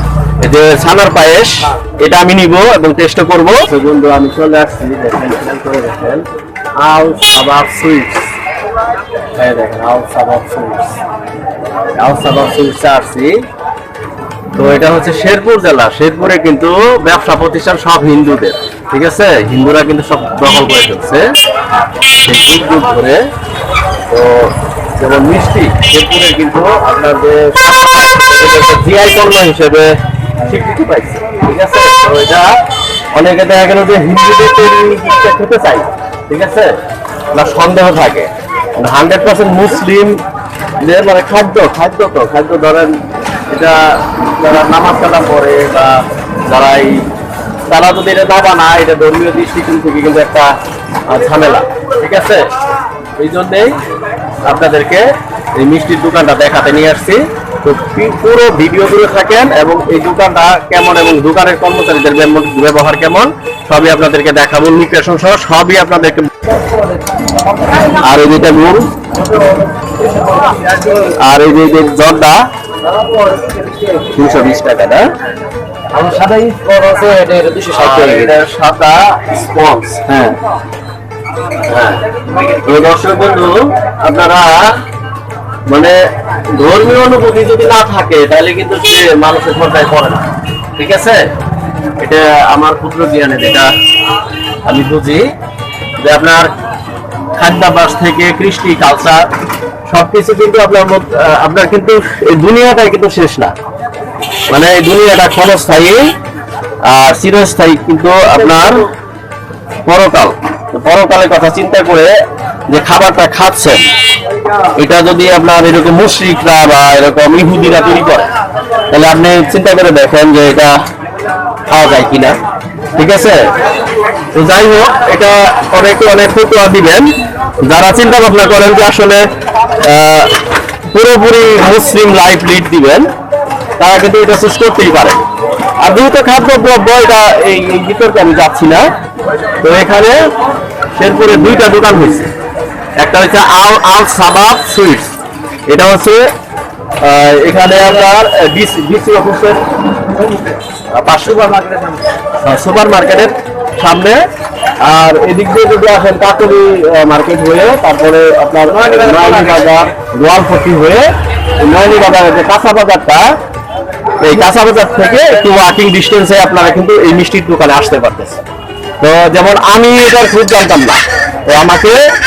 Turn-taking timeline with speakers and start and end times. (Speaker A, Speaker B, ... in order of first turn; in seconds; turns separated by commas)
Speaker A: 0.4-6.2, Speaker A: 6.8-8.3, Speaker A: 9.4-10.9, Speaker A: 11.9-13.4, Speaker A: 14.5-21.2, Speaker A: 22.2-23.2, Speaker A: 24.1-32.5, Speaker A: 33.1-36.7, Speaker A: 37.3-40.2, Speaker A: 40.8-42.9, Speaker A: 43.5-47.0, Speaker A: 47.7-50.5, Speaker A: 51.1-52.5, Speaker A: 53.2-53.8, Speaker A: 54.4-55.0, Speaker A: 55.6-66.5, Speaker A: 67.9-68.9, Speaker B: 69.8-71.1, Speaker A: 71.1-72.4, Speaker B: 73.1-74.0, Speaker A: 74.1-75.1, Speaker B: 75.9-78.3, Speaker A: 77.7-80.3, Speaker A: 81.7-84.7, Speaker A: 85.7-86.0, Speaker A: 86.5-91.2, Speaker A: 92.0-93.7, Speaker A: 94.6-95.2, Speaker A: 96.0-96.5, Speaker A: 97.4-99.2, Speaker A: 99.9-103.5, Speaker A: 104.5-106.0, Speaker A: 106.8-108.9, Speaker A: 109.8-112.2, Speaker A: 112.7-113.8, Speaker A: 114.8-118.3, Speaker A: 118.9-120.7, Speaker A: 121.7-122.4, Speaker A: 123.0-123.5, Speaker A: 124.3-127.1, Speaker A: 127.6-129.2, Speaker A: 129.8-133.1, Speaker A: 133.8-135.2, Speaker A: 135.8-138.8, Speaker A: 139.6-140.2, Speaker A: 140.9-142.3, Speaker A: 143.0-145.1, Speaker A: 145.7-146.3, Speaker A: 147.0-149.6, Speaker A: 150.9-151.6, Speaker B: 151.5-151.9, Speaker A: 152.4-154.2, Speaker A: 154.8-163.3, Speaker A: 164.2-168.4, Speaker A: 169.0-172.0